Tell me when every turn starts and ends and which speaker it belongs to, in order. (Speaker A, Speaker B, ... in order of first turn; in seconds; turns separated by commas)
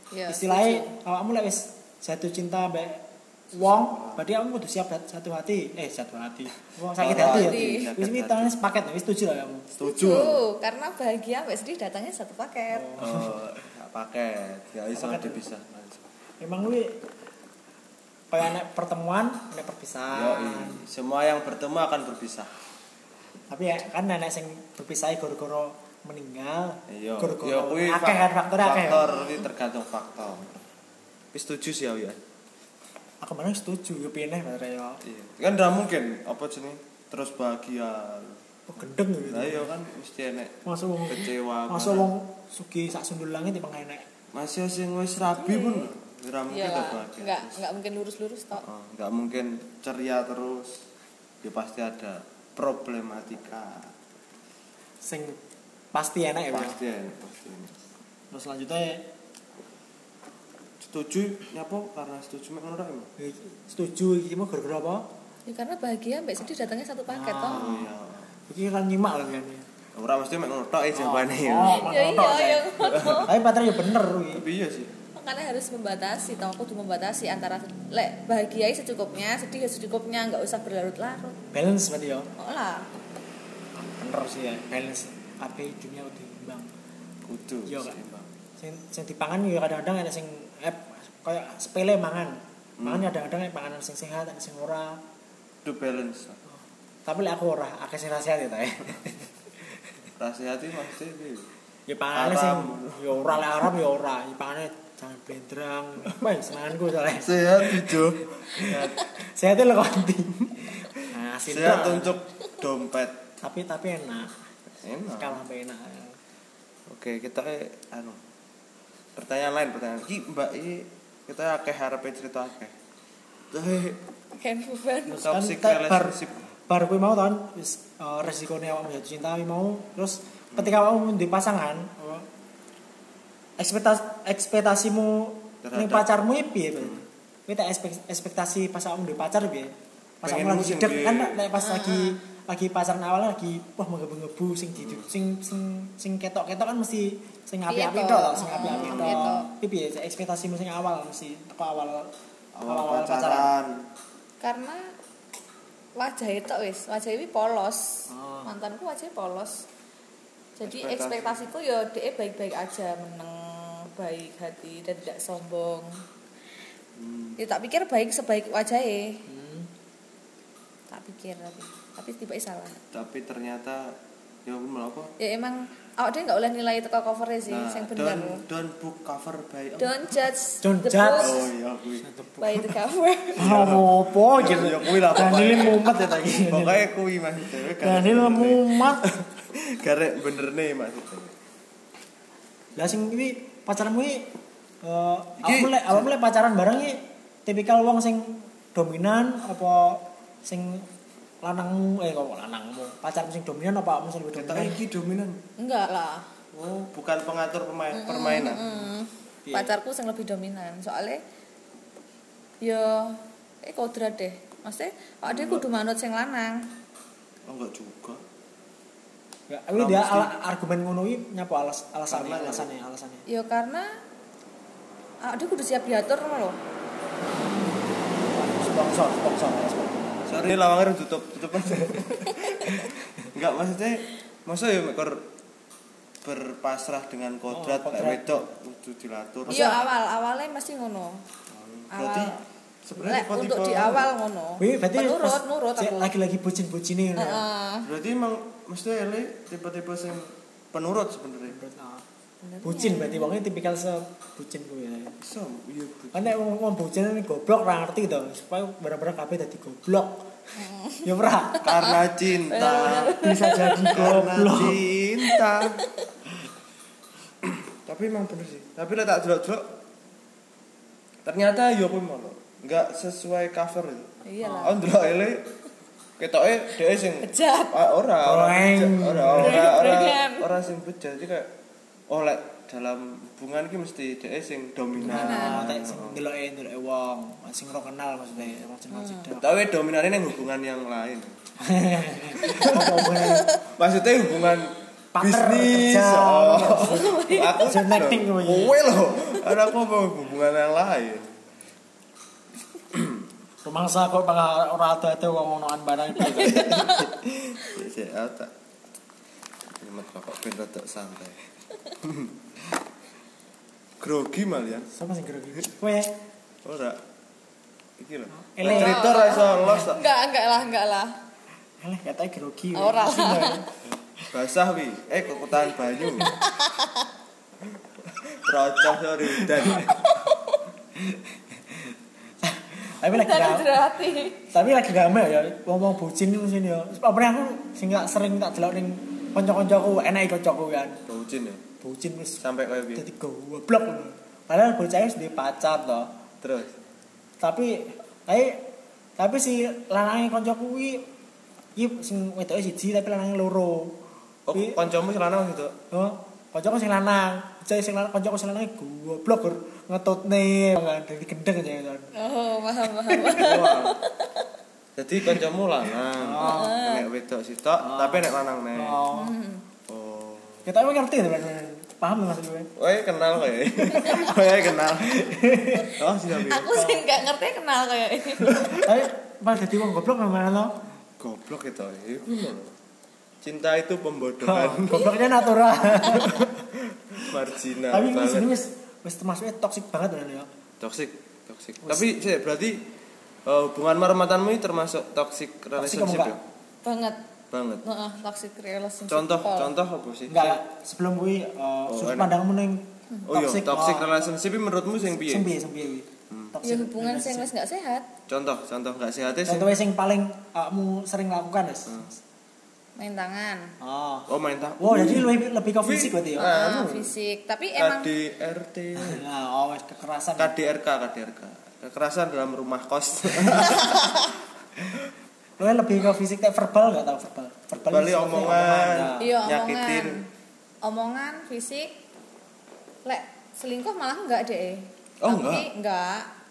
Speaker A: 0.1-0.9, Speaker B: 0.3-9.7, Speaker C: 3.6-4.2, Speaker C: 7.0-8.5, Speaker A: 7.1-7.9, Speaker C: 9.7-10.4, Speaker A: 9.8-13.0, Speaker B: 12.7-13.4, Speaker C: 13.0-16.0, Speaker B: 14.9-15.4, Speaker B: 16.4-17.1, Speaker B: 18.3-20.8, Speaker C: 20.1-22.5, Speaker B: 23.5-29.0, Speaker C: 26.9-30.6, Speaker C: 31.3-32.2, Speaker B: 33.2-35.0, Speaker C: 35.0-38.4, Speaker B: 38.7-39.7, Speaker C: 39.2-42.1, Speaker B: 40.6-44.1, Speaker C: 44.3-47.6, Speaker A: 45.2-45.9, Speaker A: 46.5-48.6, Speaker C: 48.5-50.8, Speaker C: 51.4-53.9, Speaker B: 55.0-55.4, Speaker B: 55.9-56.8, Speaker C: 56.5-57.8, Speaker B: 58.3-59.1, Speaker C: 60.8-63.1, Speaker B: 63.2-65.0, Speaker A: 65.5-67.6, Speaker B: 67.1-67.9, Speaker C: 67.5-68.3, Speaker B: 68.5-69.7, Speaker C: 70.0-71.9, Speaker B: 70.9-74.4, Speaker A: 71.6-73.3, Speaker C: 72.8-73.3, Speaker C: 74.3-74.9, Speaker A: 75.1-81.4, Speaker B: 81.5-82.3, Speaker A: 82.4-82.8, Speaker B: 83.7-86.7, Speaker C: 87.2-88.3, Speaker B: 87.7-87.9, Speaker B: 88.6-95.0, Speaker C: 92.8-93.1, Speaker C: 95.6-96.4, Speaker B: 97.0-99.3, Speaker C: 100.2-101.5, Speaker B: 101.9-112.2, Speaker C: 102.1-103.5, Speaker C: 107.2-109.1, Speaker C: 110.4-113.3, Speaker B: 113.4-114.4, Speaker C: 114.8-115.4, Speaker B: 115.2-116.2, Speaker C: 116.9-118.2, Speaker C: 119.2-122.7, Speaker C: 123.5-124.0, Speaker A: 124.3-125.2, Speaker B: 125.1-132.3, Speaker C: 125.2-126.4, Speaker B: 133.6-152.1, Speaker C: 135.6-136.1, Speaker C: 140.2-141.4, Speaker A: 141.6-142.2, Speaker C: 144.8-145.1, Speaker A: 147.7-149.5, Speaker C: 148.6-149.3, Speaker C: 152.6-153.8, Speaker B: 152.6-153.5, Speaker A: 154.4-154.9, Speaker A: 156.0-159.6, Speaker B: 158.1-158.5, Speaker A: 160.6-165.9, Speaker C: 160.6-161.5, Speaker C: 166.9-167.4, Speaker A: 167.4-169.2, Speaker B: 169.3-169.7, Speaker A: 170.9-172.8, Speaker C: 172.9-173.9, Speaker C: 174.4-175.1, Speaker A: 175.2-178.4, Speaker C: 177.5-180.0, Speaker A: 179.8-181.4, Speaker B: 180.6-181.4, Speaker C: 181.2-182.1, Speaker B: 182.0-182.7, Speaker A: 182.4-183.4, Speaker B: 183.4-186.8, Speaker C: 183.4-191.3, Speaker B: 187.6-189.0, Speaker B: 192.8-194.3, Speaker B: 194.8-200.9, Speaker C: 195.4-196.1, Speaker B: 201.4-204.8, Speaker C: 204.3-205.4, Speaker A: 205.6-206.3, Speaker C: 206.5-208.7, Speaker A: 207.9-211.2, Speaker B: 209.4-209.7, Speaker A: 212.6-216.7, Speaker C: 215.3-215.6, Speaker C: 217.5-218.2, Speaker B: 219.5-223.2, Speaker C: 219.7-220.3, Speaker C: 222.1-222.7, Speaker A: 223.3-223.9, Speaker A: 225.2-226.6, Speaker B: 228.2-230.2, Speaker C: 230.3-235.2, Speaker B: 231.7-232.0, Speaker C: 236.2-239.8, Speaker B: 237.5-238.4, Speaker B: 239.5-239.8, Speaker A: 239.5-241.2, Speaker C: 241.5-242.3, Speaker A: 241.9-242.4, Speaker C: 242.8-244.1, Speaker A: 243.0-246.1, Speaker B: 244.6-247.4, Speaker A: 247.2-247.9, Speaker C: 247.8-251.6, Speaker B: 251.5-252.0, Speaker A: 252.4-253.3, Speaker B: 252.6-255.2, Speaker C: 255.2-256.4, Speaker B: 256.1-260.3, Speaker A: 260.6-261.9, Speaker B: 261.0-261.7, Speaker C: 261.6-263.2, Speaker A: 262.5-264.1, Speaker B: 262.5-264.8, Speaker C: 263.9-265.8, Speaker A: 265.2-265.9, Speaker C: 267.4-269.7, Speaker C: 271.2-275.4, Speaker A: 274.2-274.8, Speaker C: 276.2-281.5, Speaker A: 277.2-277.7, Speaker B: 278.2-279.7, Speaker A: 279.4-280.5, Speaker C: 282.1-286.2, Speaker B: 285.0-289.5, Speaker A: 285.0-285.6, Speaker A: 288.9-289.3, Speaker C: 289.4-291.3, Speaker B: 291.6-293.5, Speaker C: 292.4-301.3, Speaker A: 293.1-293.6, Speaker B: 295.1-297.1, Speaker A: 296.8-297.6, Speaker B: 297.6-298.8, Speaker C: 302.9-303.2, Speaker B: 303.6-306.9, Speaker A: 306.2-307.1, Speaker C: 306.3-308.5, Speaker C: 309.8-311.4, Speaker C: 312.0-312.4, Speaker C: 314.0-314.9, Speaker B: 314.9-316.2, Speaker C: 316.6-317.0, Speaker C: 318.0-320.0, Speaker B: 318.4-319.9, Speaker A: 318.6-321.1, Speaker B: 321.8-323.7, Speaker A: 322.7-323.6, Speaker C: 324.3-326.4, Speaker A: 326.1-327.1, Speaker C: 328.1-330.0, Speaker B: 329.4-329.9, Speaker A: 329.8-330.6, Speaker B: 330.9-333.9, Speaker A: 333.0-334.4, Speaker B: 334.5-341.0, Speaker C: 341.1-341.6, Speaker B: 341.8-342.4, Speaker C: 342.4-343.0, Speaker B: 342.9-346.1, Speaker C: 346.4-346.8, Speaker B: 347.4-351.1, Speaker B: 351.8-354.0, Speaker C: 354.5-355.8, Speaker B: 354.5-354.8, Speaker B: 355.9-362.1, Speaker A: 362.1-364.5, Speaker B: 363.1-363.5, Speaker C: 363.3-364.0, Speaker C: 364.9-369.0, Speaker B: 366.1-366.8, Speaker A: 366.4-367.1, Speaker B: 367.8-369.3, Speaker A: 369.1-369.6, Speaker C: 369.9-370.6, Speaker B: 370.6-372.7, Speaker C: 372.8-376.8, Speaker B: 373.9-374.2, Speaker A: 374.0-374.3, Speaker B: 375.0-376.0, Speaker A: 376.5-378.6, Speaker B: 376.7-377.0, Speaker B: 378.4-380.8, Speaker C: 378.5-378.9, Speaker C: 381.2-382.7, Speaker C: 383.4-385.2, Speaker B: 384.4-386.6, Speaker A: 386.0-386.3, Speaker C: 386.1-388.5, Speaker B: 387.9-390.5, Speaker C: 390.8-392.9, Speaker B: 391.8-392.1, Speaker C: 393.4-396.4, Speaker B: 395.8-396.4, Speaker A: 396.8-397.2, Speaker C: 397.5-397.8, Speaker A: 397.8-399.7, Speaker C: 399.1-400.6, Speaker B: 400.3-404.1, Speaker C: 401.9-402.3, Speaker C: 403.3-405.5, Speaker B: 405.2-407.5, Speaker C: 406.3-406.6, Speaker A: 406.6-408.1, Speaker C: 408.3-409.7, Speaker B: 409.4-412.1, Speaker A: 413.0-413.7, Speaker B: 413.8-416.6, Speaker C: 414.3-417.1, Speaker A: 416.4-418.1, Speaker C: 417.8-419.2, Speaker B: 419.0-420.5, Speaker C: 420.4-424.3, Speaker B: 423.3-423.7, Speaker B: 425.6-429.4, Speaker C: 427.8-430.2, Speaker A: 429.2-430.2, Speaker A: 430.8-431.9, Speaker A: 433.1-436.3, Speaker C: 435.2-435.7